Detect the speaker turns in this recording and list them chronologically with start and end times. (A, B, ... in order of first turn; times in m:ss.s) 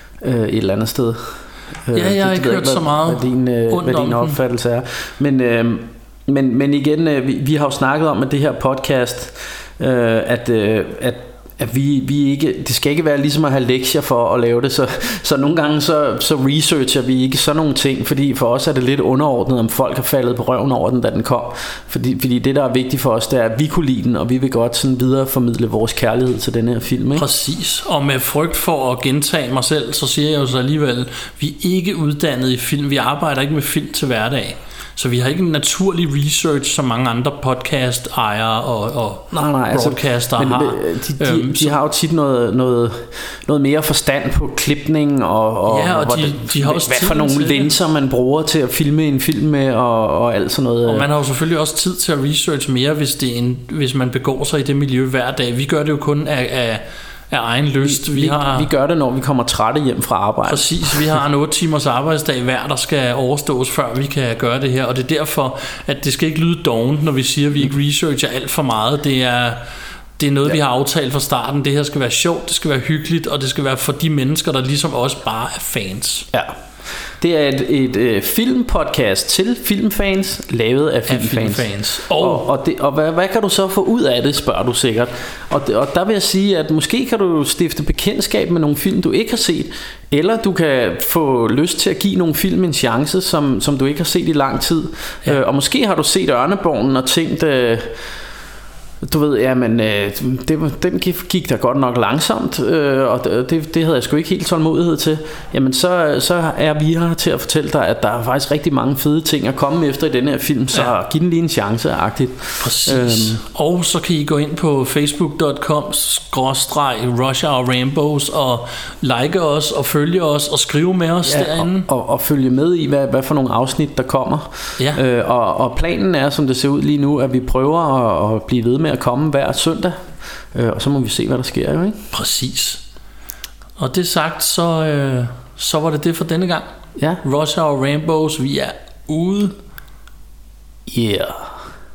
0:00.2-0:27.2 A
0:01.9-0:04.4 B
0:27.2-0:41.8 B
0:39.3-0:51.1 A
0:45.7-0:47.7 B
0:50.8-0:58.7 B
0:57.8-1:01.0 A
1:00.5-1:09.6 B
1:10.2-1:16.3 B
1:17.2-1:37.9 A
1:21.1-1:22.4 B
1:39.0-1:53.4 A
1:52.6-2:01.9 B
2:01.2-2:12.0 A
2:12.1-2:12.8 B
2:13.8-2:19.5 B
2:17.0-2:17.2 A
2:20.9-2:21.5 A